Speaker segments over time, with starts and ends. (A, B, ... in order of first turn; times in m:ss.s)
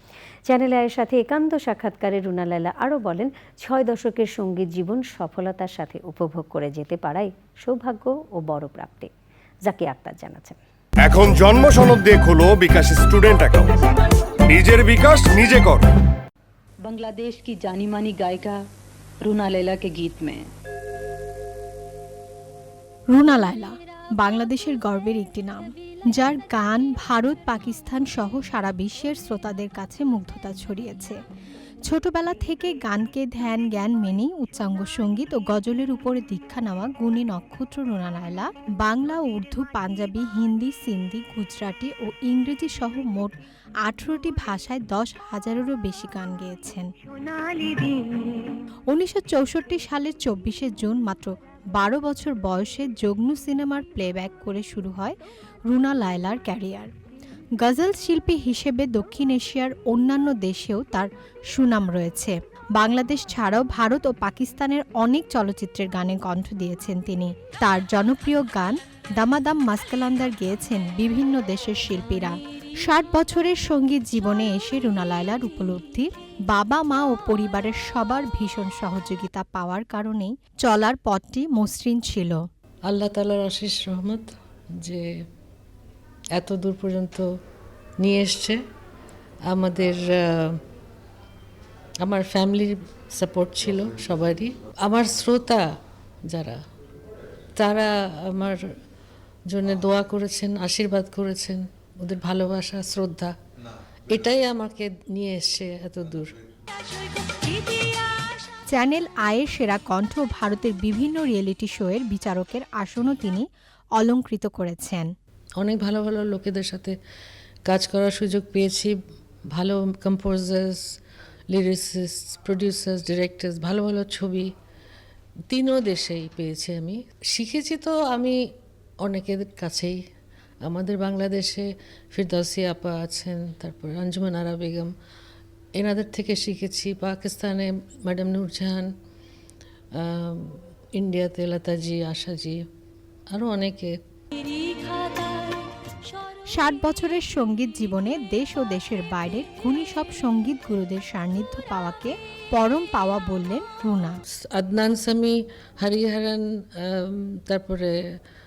0:00.5-0:09.1 A
0:09.6-0:10.6 A
0:11.0-0:13.9 B
0:14.4-0:15.8 B
0:16.8-0:18.6 C
0:19.2-0:20.5 C
0:23.1-0:31.2 D
0:31.8-0:48.0 D
0:48.9-0:55.2 D
0:55.7-0:56.9 D
0:57.6-1:22.4 D
1:22.8-1:25.1 E
1:26.3-1:27.3 E
1:28.0-1:28.6 E
1:29.5-1:30.6 E
1:32.0-1:35.6 E
1:36.3-1:36.6 E
1:37.6-1:38.7 E
1:39.5-1:43.3 E
1:44.1-1:46.3 E
1:47.4-1:47.7 D
1:48.7-1:53.4 D
1:54.0-1:55.1 D
1:55.6-1:56.9 E
1:57.6-1:58.9 E
1:59.5-2:00.8 E
2:01.5-2:04.5 E
2:05.5-2:08.4 E
2:09.0-2:10.0 E
2:10.6-2:14.9 E
2:15.7-2:18.9 E
2:19.9-2:22.6 E
2:23.3-2:24.0 E
2:24.4-2:25.3 D
2:26.5-2:34.2 D
2:34.5-2:37.9 E